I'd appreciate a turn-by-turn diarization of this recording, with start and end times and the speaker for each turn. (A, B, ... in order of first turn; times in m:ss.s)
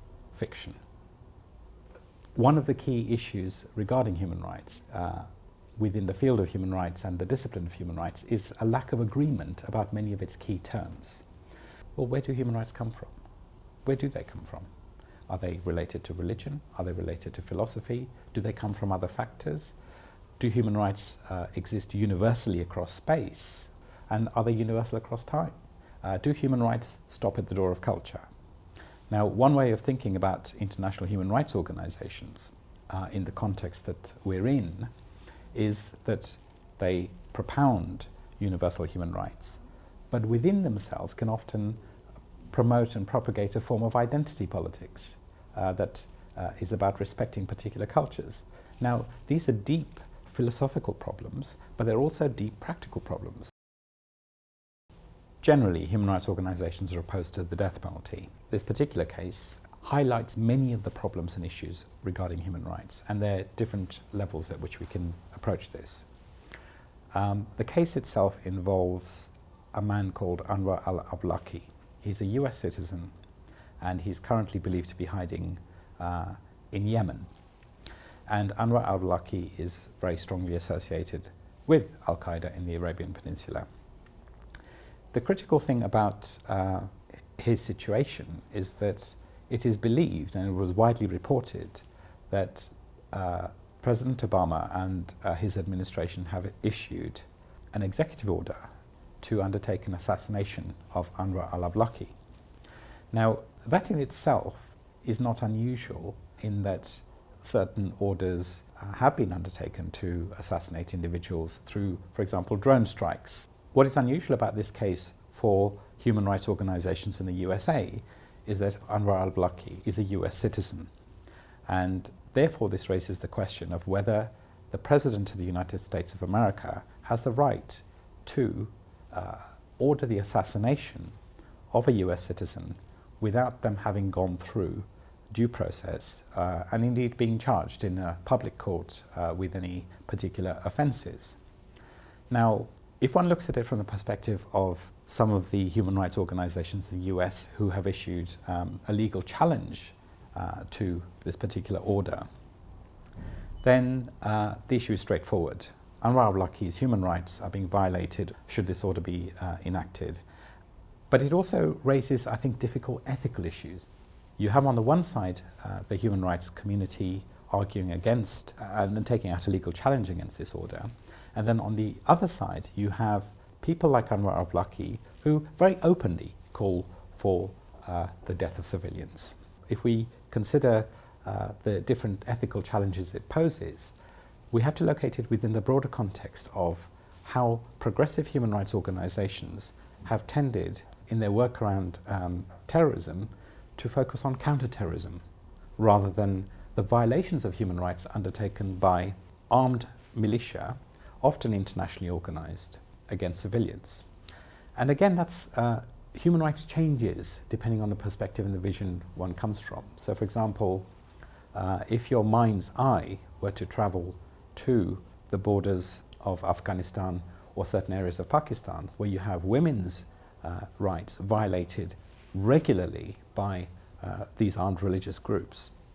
0:00.3-0:00.8 A
0:02.4-0:11.2 A
0:11.9-0:13.1 A
0:13.8-0:14.7 A
0:15.3-0:19.7 A
0:20.4-0:28.2 A
0:29.1-0:34.9 A
0:35.5-0:39.6 A
0:40.1-0:41.8 A
0:42.5-0:53.5 A
0:55.4-1:06.1 A
1:07.1-1:13.1 A
1:13.8-1:17.3 A
1:18.3-1:23.7 A
1:25.1-1:38.7 A
1:39.2-1:42.1 A
1:43.1-2:00.9 A
2:01.7-2:11.2 A
2:11.7-2:21.4 A
2:22.3-2:32.3 A
2:33.6-2:40.2 A
2:41.1-3:03.9 A
3:04.5-3:15.2 A
3:15.8-3:24.0 A
3:24.8-3:30.9 A
3:31.5-3:45.7 A